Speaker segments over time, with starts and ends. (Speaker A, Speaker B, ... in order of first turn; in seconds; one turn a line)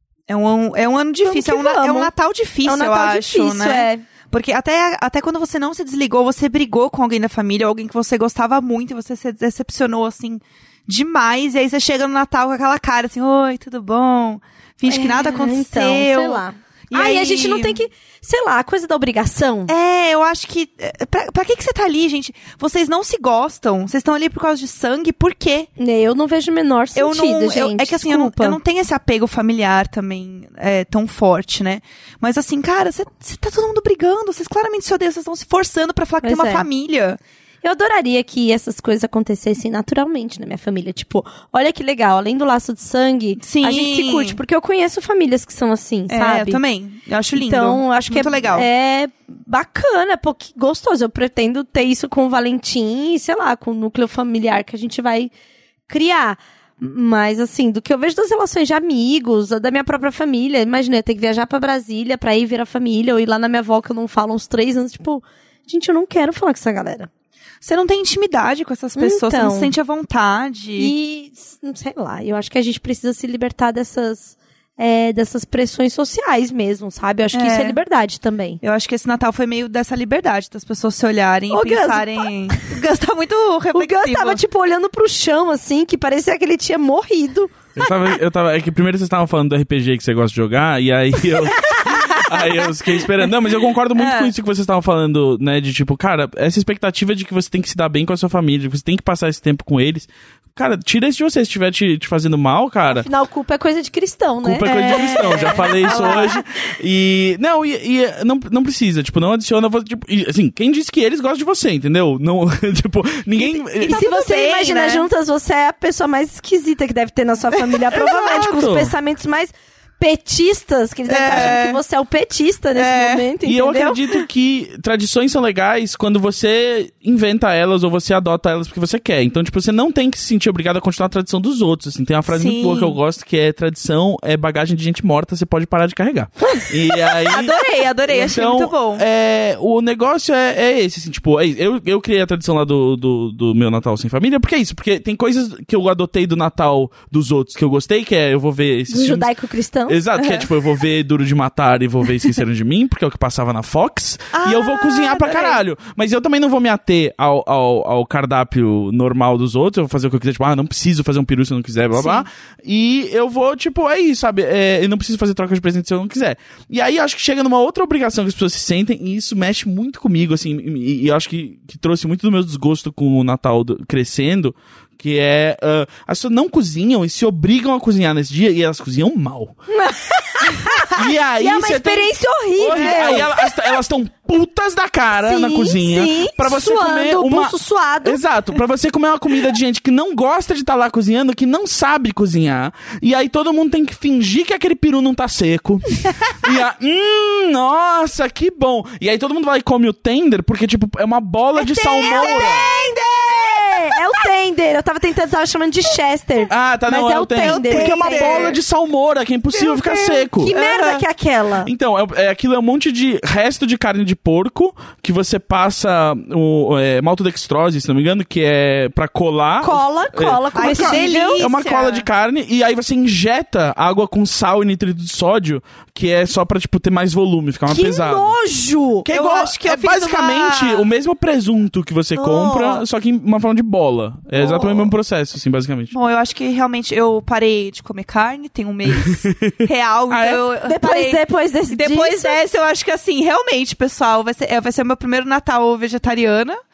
Speaker A: 0.3-17.8
Speaker B: 1.2-2.1
Speaker B: 2.6-4.0
Speaker B: 14.9-19.7
Speaker A: 19.7-25.7
Speaker B: 25.8-28.6
Speaker A: 27.0-37.2
Speaker B: 36.2-36.7
Speaker B: 37.6-46.6
Speaker A: 43.4-44.4
Speaker A: 46.1-48.7
Speaker B: 47.4-55.3
Speaker B: 55.9-67.1
Speaker A: 67.6-70.9
Speaker B: 69.0-69.7
Speaker B: 70.8-78.6
Speaker A: 77.3-77.8
Speaker A: 78.6-84.4
Speaker B: 81.5-82.6
Speaker B: 83.8-87.5
Speaker C: 87.8-103.1
Speaker B: 102.9-106.4
Speaker C: 104.4-114.0
Speaker A: 104.7-106.4
Speaker A: 113.4-115.1
Speaker B: 113.8-124.0
Speaker C: 118.0-118.9
Speaker A: 121.1-121.8
Speaker A: 122.8-123.2
Speaker C: 123.5-137.6
Speaker A: 132.3-133.0
Speaker A: 137.1-139.1
Speaker C: 138.1-149.3
Speaker B: 148.9-150.0
Speaker C: 149.9-179.6
Speaker A: 150.2-150.5
Speaker A: 154.3-155.6
Speaker A: 162.0-162.3
Speaker B: 179.7-183.5
Speaker C: 180.8-202.6
Speaker A: 182.7-183.3
Speaker B: 185.2-188.2
Speaker B: 201.6-208.5
Speaker A: 202.0-204.0
Speaker C: 206.5-210.5
Speaker A: 207.4-208.6
Speaker A: 209.5-211.0
Speaker B: 210.4-211.7
Speaker C: 211.6-228.3
Speaker B: 219.6-221.4
Speaker A: 220.6-222.1
Speaker B: 227.7-229.1
Speaker C: 229.1-235.9
Speaker A: 229.1-230.9
Speaker B: 232.2-232.8
Speaker A: 234.4-234.9
Speaker A: 235.9-246.6
Speaker C: 240.1-240.4
Speaker B: 240.7-242.4